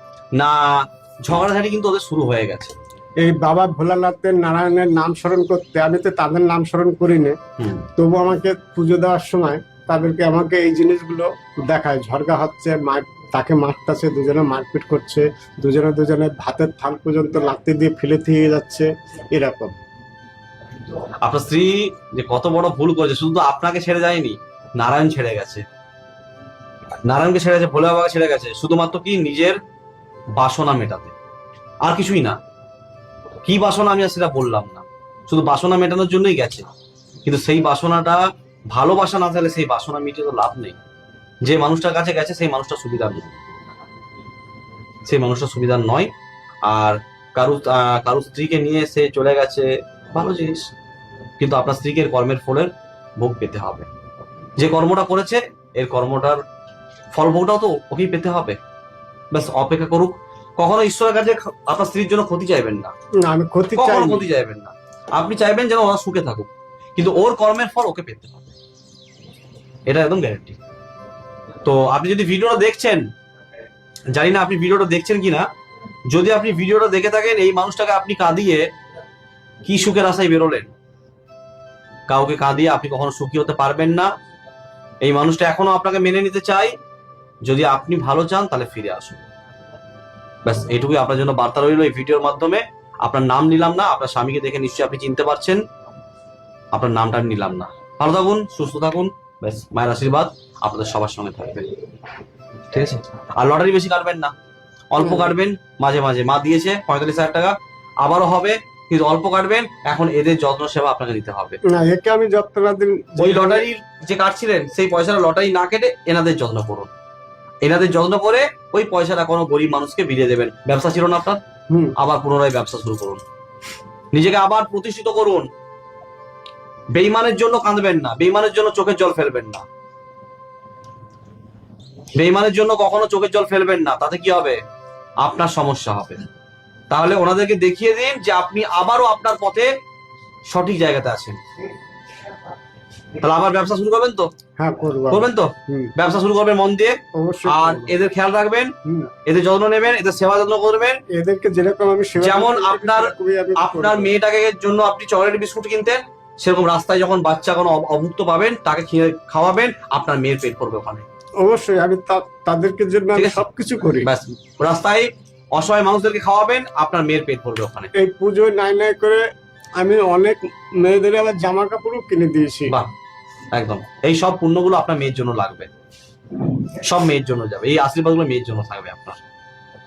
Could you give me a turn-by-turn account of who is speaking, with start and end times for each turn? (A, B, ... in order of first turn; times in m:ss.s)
0:00.4-0:02.7 A
0:03.2-0:07.4 B
0:07.6-0:07.9 A
0:08.0-0:19.8 B
0:21.2-0:25.6 A
0:27.0-0:29.6 A
0:30.4-0:31.1 A
0:31.8-0:32.4 A
0:33.4-0:36.6 A
0:37.2-0:40.8 A
0:41.4-0:43.3 A
0:45.1-0:46.1 A
0:46.7-0:50.7 A
0:51.4-0:53.9 A
0:54.6-0:56.4 A
0:57.1-0:58.6 A
0:59.3-1:02.9 A
1:03.2-1:04.3 B
1:03.7-1:08.6 A
1:09.9-1:10.6 A
1:11.6-1:13.0 A
1:14.1-1:15.5 A
1:16.1-1:18.6 A
1:19.6-1:20.7 A
1:22.1-1:24.1 A
1:25.0-1:26.7 A
1:27.4-1:29.2 A
1:30.4-1:35.6 A
1:36.7-1:41.7 A
1:42.7-1:44.3 A
1:44.9-1:51.6 A
1:45.0-1:45.4 B
1:51.7-1:53.6 B
1:53.2-1:56.9 A
1:57.6-2:01.4 A
2:02.0-2:03.2 A
2:04.1-2:05.5 A
2:06.9-2:09.6 A
2:12.1-2:14.6 A
2:15.2-2:16.2 A
2:16.9-2:19.7 A
2:20.5-2:21.4 A
2:23.2-2:24.3 A
2:24.6-2:25.9 B
2:25.1-2:28.7 A
2:27.1-2:28.0 B
2:29.2-2:31.0 A
2:31.1-2:34.1 B
2:32.2-2:41.0 A
2:41.4-2:44.1 B
2:43.1-2:43.4 A
2:44.0-2:47.9 A
2:47.9-2:49.2 B
2:49.8-2:52.7 B
2:53.5-2:55.7 A
2:56.7-2:59.2 A